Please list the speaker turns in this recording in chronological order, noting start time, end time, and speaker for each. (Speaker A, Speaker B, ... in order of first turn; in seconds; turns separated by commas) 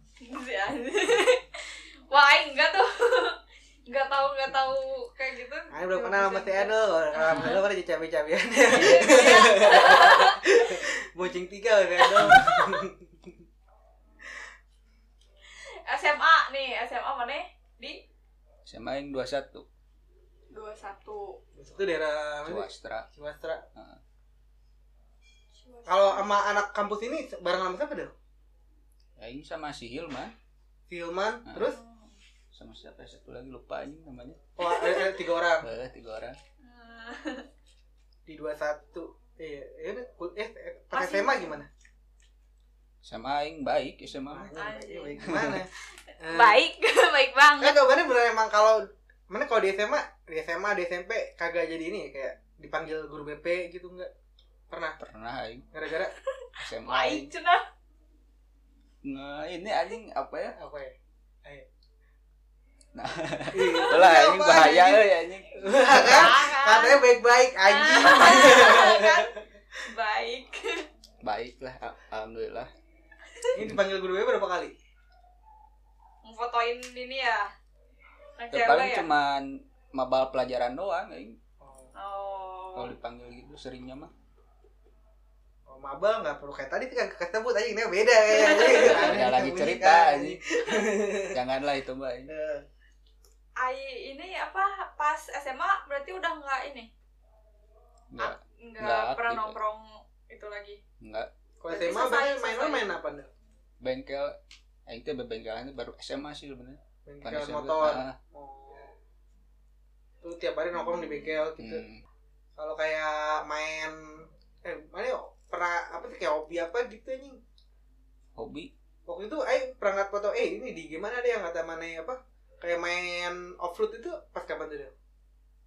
Speaker A: 0.2-7.6, Speaker B: 5.7-13.3, Speaker A: 8.7-10.6, Speaker A: 12.0-12.6, Speaker A: 15.6-18.0, Speaker C: 18.6-19.6, Speaker A: 20.5-21.4, Speaker B: 21.6-23.6, Speaker C: 22.4-23.1, Speaker C: 23.8-24.0, Speaker A: 25.6-26.3, Speaker B: 25.9-28.1, Speaker C: 29.2-30.3, Speaker B: 30.9-31.8, Speaker A: 31.6-32.1, Speaker C: 32.5-34.4, Speaker B: 34.6-35.7, Speaker A: 34.6-35.1, Speaker C: 35.6-36.4, Speaker A: 36.6-37.5, Speaker B: 38.2-41.7, Speaker A: 40.9-41.6, Speaker C: 43.0-44.5, Speaker B: 44.3-46.6, Speaker A: 44.5-45.2, Speaker C: 45.2-45.6, Speaker A: 46.3-47.8, Speaker B: 47.6-54.1, Speaker B: 54.7-55.0, Speaker C: 55.0-55.6, Speaker B: 55.7-56.1, Speaker A: 56.1-57.6, Speaker C: 56.6-57.3, Speaker C: 59.0-60.5, Speaker B: 60.5-61.7, Speaker C: 62.9-66.2, Speaker B: 63.5-69.4, Speaker A: 63.6-63.9, Speaker A: 65.7-67.0, Speaker A: 67.6-70.8, Speaker C: 71.2-72.7, Speaker B: 73.5-74.8, Speaker A: 76.2-77.5, Speaker A: 78.4-79.1, Speaker C: 78.5-81.4, Speaker B: 81.6-81.9, Speaker A: 81.9-82.9, Speaker C: 82.8-84.1, Speaker B: 85.7-91.4, Speaker A: 88.3-89.2, Speaker C: 88.7-90.4, Speaker C: 91.3-92.3, Speaker B: 92.3-92.6, Speaker A: 93.6-96.9, Speaker C: 98.1-99.6, Speaker A: 98.2-100.8, Speaker C: 101.0-101.3, Speaker B: 101.6-103.3, Speaker A: 101.7-102.9, Speaker C: 103.8-104.3, Speaker C: 104.9-108.1, Speaker B: 107.0-108.9, Speaker B: 110.2-111.8, Speaker A: 110.8-111.3, Speaker C: 111.6-112.0, Speaker B: 112.5-117.4, Speaker C: 118.4-118.7, Speaker B: 119.0-124.9